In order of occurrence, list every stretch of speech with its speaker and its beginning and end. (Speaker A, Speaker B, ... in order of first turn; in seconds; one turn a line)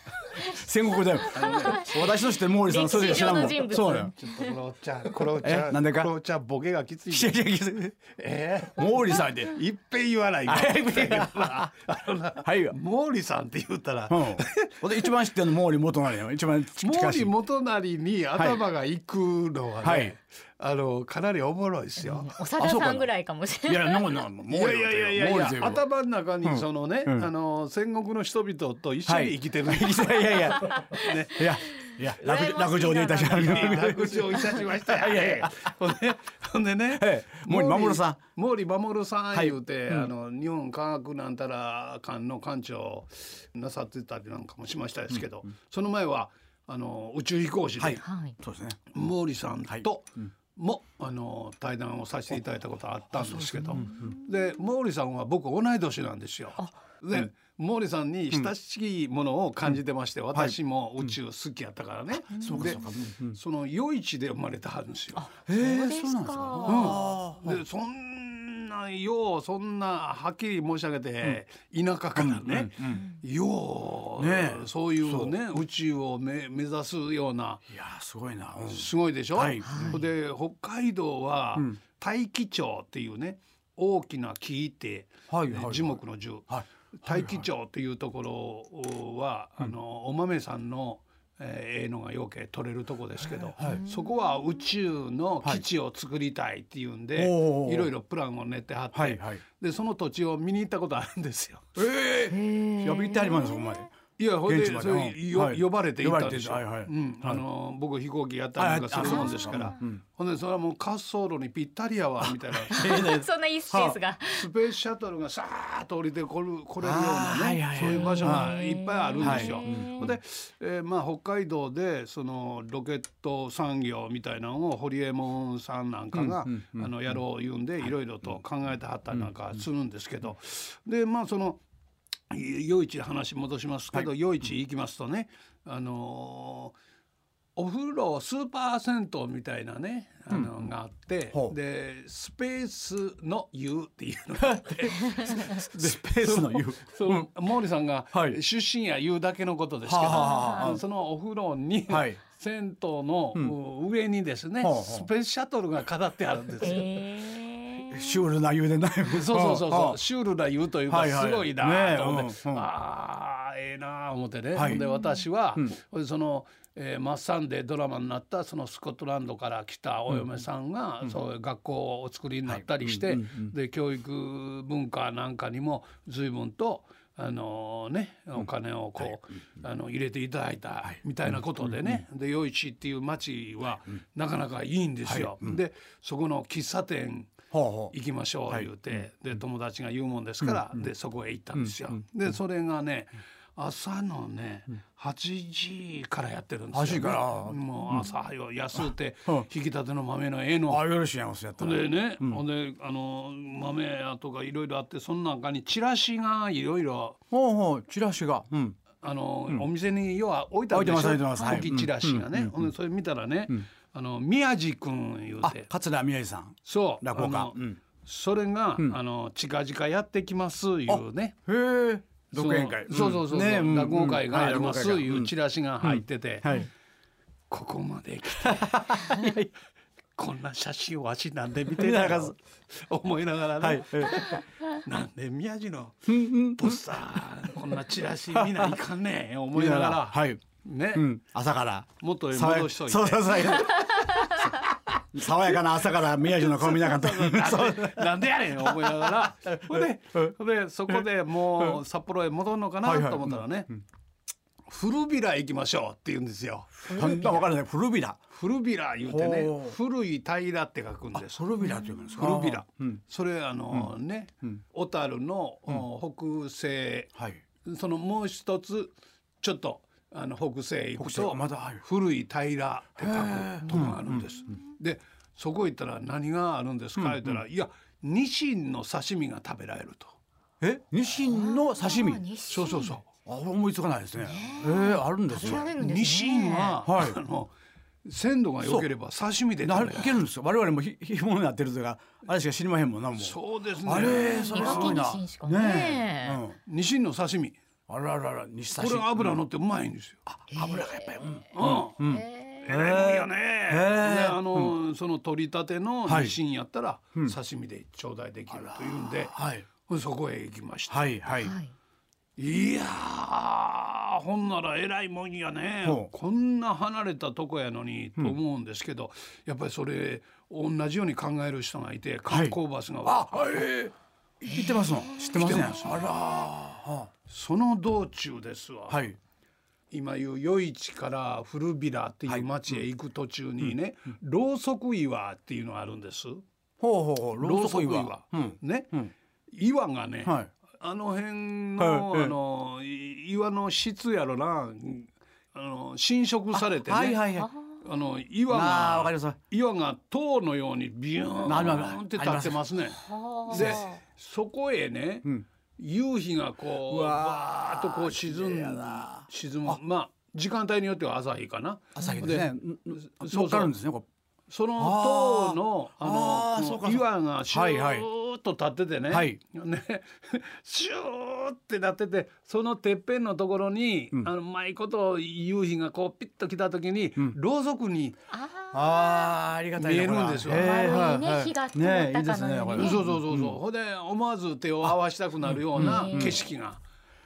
Speaker A: 0.4-4.1
Speaker B: 1.3-2.1
Speaker C: 1.5-4.5
Speaker B: 2.9-7.4
Speaker A: 5.4-6.1
Speaker A: 7.1-8.0
Speaker B: 8.0-15.1
Speaker A: 8.7-9.6
Speaker A: 10.4-11.7
Speaker A: 12.4-12.8
Speaker A: 14.1-17.3
Speaker B: 16.8-22.4
Speaker A: 18.4-18.6
Speaker A: 19.8-20.1
Speaker C: 22.0-24.2
Speaker A: 22.6-23.1
Speaker A: 23.6-25.8
Speaker B: 24.5-31.6
Speaker A: 26.4-27.3
Speaker A: 29.1-35.7
Speaker C: 30.6-30.9
Speaker C: 31.6-34.5
Speaker B: 33.4-48.0
Speaker A: 36.9-38.2
Speaker A: 39.3-40.1
Speaker A: 47.8-48.9
Speaker C: 48.0-48.4
Speaker B: 48.9-65.3
Speaker A: 53.1-54.1
Speaker C: 53.7-54.1
Speaker A: 60.3-61.1
Speaker A: 62.3-63.4
Speaker C: 62.3-62.9
Speaker A: 65.1-67.6
Speaker C: 65.5-67.1
Speaker B: 66.7-77.6
Speaker A: 72.1-73.0
Speaker C: 72.9-73.2
Speaker A: 74.2-75.4
Speaker A: 77.7-80.0
Speaker B: 78.7-101.7
Speaker C: 79.6-80.0
Speaker A: 85.3-87.5
Speaker A: 93.6-93.8
Speaker C: 93.6-94.1
Speaker A: 97.2-97.9
Speaker A: 98.9-99.4
Speaker A: 101.8-107.4
Speaker C: 102.3-103.8
Speaker B: 104.2-113.0
Speaker A: 108.6-110.0
Speaker C: 109.0-109.8
Speaker A: 112.2-114.0
Speaker C: 112.7-114.5
Speaker B: 114.3-131.6
Speaker A: 116.8-118.6
Speaker C: 117.9-120.1
Speaker A: 119.2-120.2
Speaker A: 126.1-127.2
Speaker A: 127.8-128.4
Speaker A: 129.1-129.6
Speaker B: 132.3-136.8
Speaker B: 137.6-157.0
Speaker A: 144.6-147.3
Speaker A: 148.1-148.4
Speaker A: 149.8-150.8
Speaker C: 150.1-150.8
Speaker A: 151.9-152.2
Speaker A: 154.6-155.1
Speaker C: 156.6-158.2
Speaker A: 157.9-160.0
Speaker B: 159.1-200.9
Speaker A: 160.8-162.7
Speaker A: 164.5-164.8
Speaker C: 164.6-165.2
Speaker A: 172.5-173.5
Speaker A: 180.8-182.0
Speaker A: 185.1-185.6
Speaker A: 187.5-187.9
Speaker A: 188.5-189.0
Speaker A: 190.4-190.8
Speaker A: 191.5-192.0
Speaker A: 196.7-198.1
Speaker A: 198.7-199.5
Speaker A: 200.7-202.4
Speaker B: 201.6-207.2
Speaker A: 207.3-208.8
Speaker B: 209.0-215.7
Speaker A: 210.7-212.7
Speaker C: 211.4-211.7
Speaker A: 215.4-217.8
Speaker B: 216.6-221.4
Speaker A: 220.9-226.7
Speaker B: 222.3-226.6
Speaker B: 227.5-229.3
Speaker A: 228.4-229.5
Speaker B: 230.2-241.1
Speaker A: 231.7-232.3
Speaker A: 233.6-234.4
Speaker A: 236.1-236.8
Speaker A: 238.3-238.8
Speaker A: 239.5-240.4
Speaker A: 240.9-250.3
Speaker B: 242.0-243.9
Speaker B: 246.4-253.7
Speaker A: 250.9-251.8
Speaker A: 252.8-253.8
Speaker B: 254.7-257.4
Speaker A: 256.9-258.2
Speaker C: 256.9-257.4
Speaker B: 258.3-261.5
Speaker A: 259.0-259.8
Speaker A: 261.1-263.0
Speaker C: 261.6-262.1
Speaker B: 262.1-280.1
Speaker A: 267.1-267.4
Speaker A: 271.0-271.8
Speaker A: 273.0-274.2
Speaker A: 277.0-277.4
Speaker A: 280.6-282.2
Speaker C: 281.2-282.9
Speaker B: 282.5-283.1
Speaker A: 283.1-285.8
Speaker C: 284.2-286.8
Speaker B: 285.4-287.5
Speaker A: 286.8-287.2
Speaker B: 288.0-290.2
Speaker A: 288.6-288.9
Speaker A: 289.6-296.6
Speaker B: 293.2-295.0
Speaker C: 294.0-296.4
Speaker B: 296.6-297.6
Speaker A: 297.9-299.4
Speaker B: 298.7-300.2
Speaker A: 300.3-304.7
Speaker C: 300.5-301.1
Speaker B: 301.5-302.1
Speaker C: 302.0-302.7
Speaker B: 302.6-311.2
Speaker A: 306.1-306.4
Speaker A: 308.5-309.6
Speaker A: 310.9-311.5
Speaker C: 311.4-311.7
Speaker B: 312.4-323.7
Speaker A: 315.8-316.1
Speaker A: 322.3-327.1
Speaker C: 324.5-325.6
Speaker B: 325.3-326.0
Speaker B: 327.2-329.1
Speaker A: 328.9-329.2
Speaker B: 329.9-336.4
Speaker A: 332.3-332.8
Speaker A: 336.8-339.1
Speaker B: 337.4-347.3
Speaker A: 340.2-340.5
Speaker A: 341.8-342.3
Speaker A: 346.5-347.5
Speaker C: 347.4-347.7
Speaker B: 347.8-363.8
Speaker A: 348.5-349.4
Speaker A: 351.4-352.9
Speaker C: 353.0-354.0
Speaker A: 353.5-353.9
Speaker A: 356.8-359.8
Speaker A: 361.9-364.1
Speaker B: 364.5-378.2
Speaker A: 364.8-368.1
Speaker A: 369.1-369.4
Speaker C: 378.3-379.4
Speaker A: 378.7-383.6
Speaker B: 379.8-381.1
Speaker C: 380.5-383.0
Speaker B: 382.7-386.8
Speaker A: 384.8-386.4
Speaker C: 385.8-386.4